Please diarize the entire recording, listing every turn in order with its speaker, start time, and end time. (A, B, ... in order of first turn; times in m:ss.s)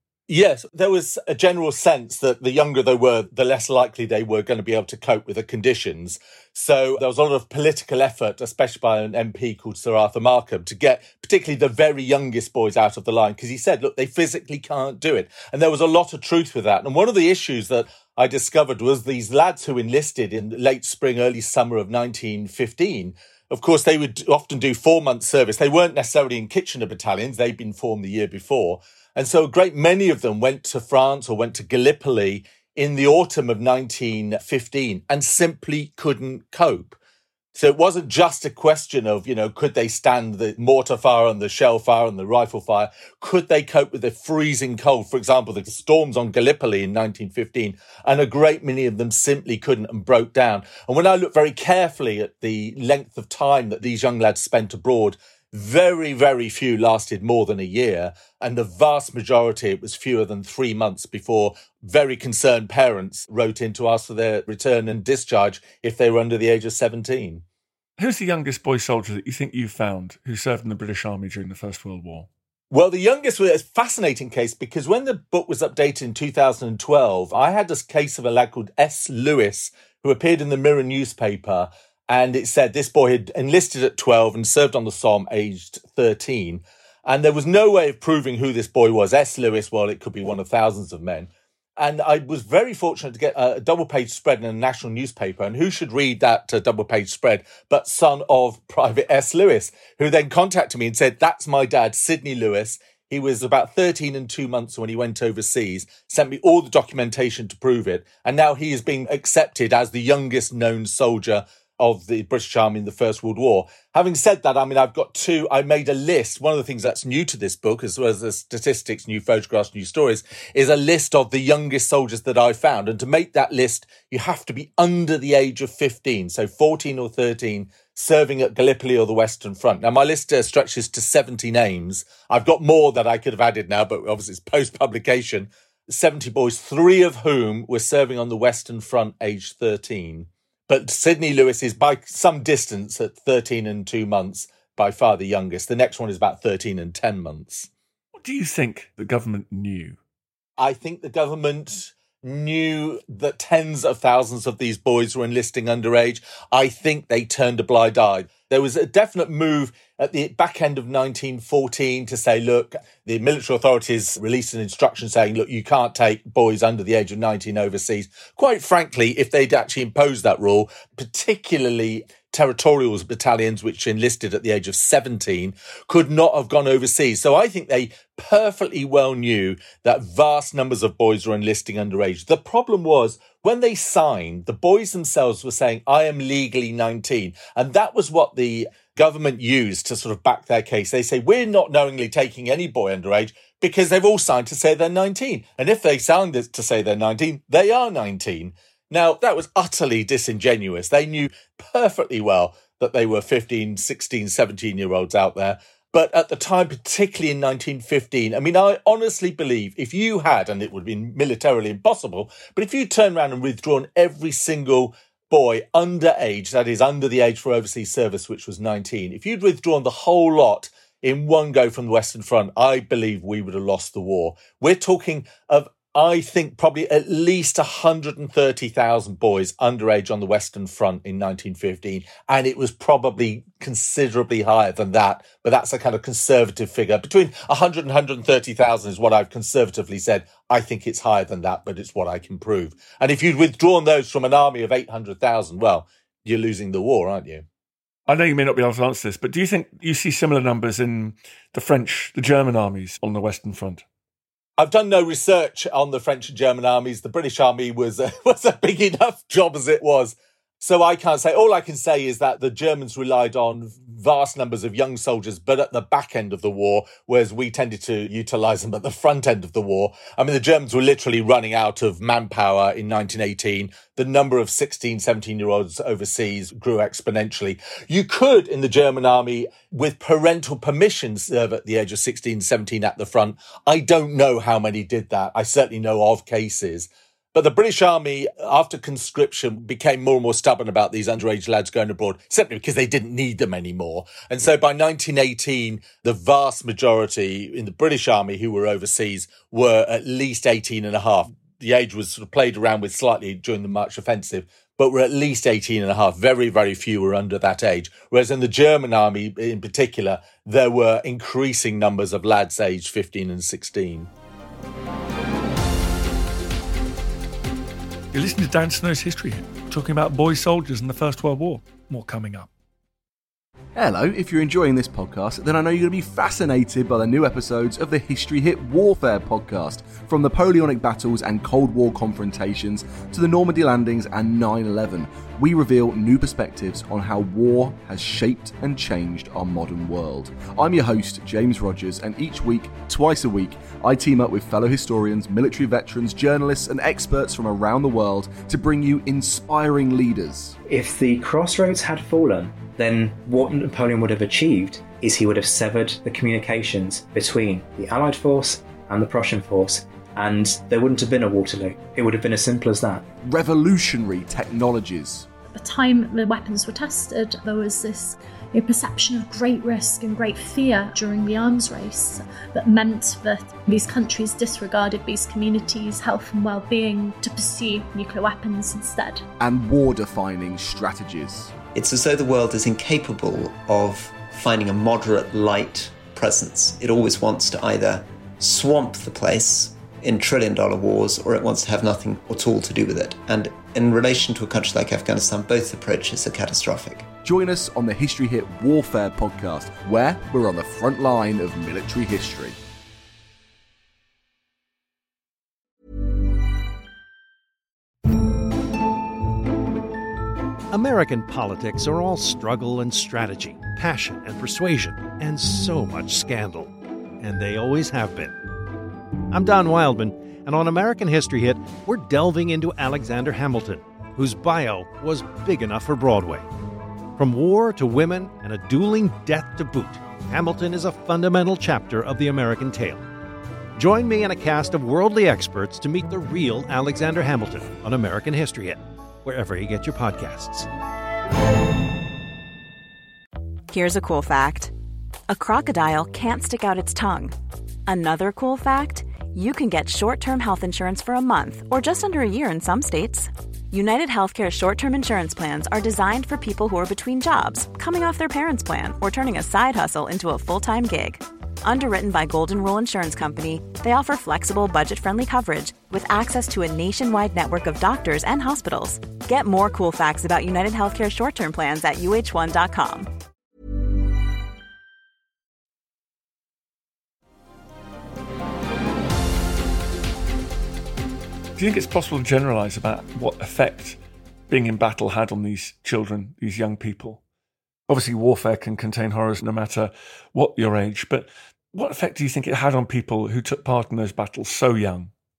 0:00.3-0:37.0 A
0:37.5-1:07.4 A
1:08.0-1:12.3 B
1:12.7-2:27.7 A
2:28.2-2:30.0 B
2:30.6-4:07.4 A
4:08.1-4:13.8 B
4:14.6-5:14.1 A
5:18.1-5:22.5 B
5:23.8-5:50.6 C
5:50.6-6:03.0 D
6:03.2-6:05.3 C
6:05.5-6:19.2 E
6:19.4-6:21.5 C
6:21.7-6:37.1 F
6:37.2-6:42.6 C
6:50.7-6:58.4 G
6:59.3-7:06.4 G
7:07.2-7:13.0 G
7:13.8-7:20.7 G
7:23.7-7:24.7 H
7:25.3-7:27.3 H
7:27.8-7:53.1 H
8:01.6-8:04.0 B
8:04.5-8:07.2 B
8:07.9-8:15.1 B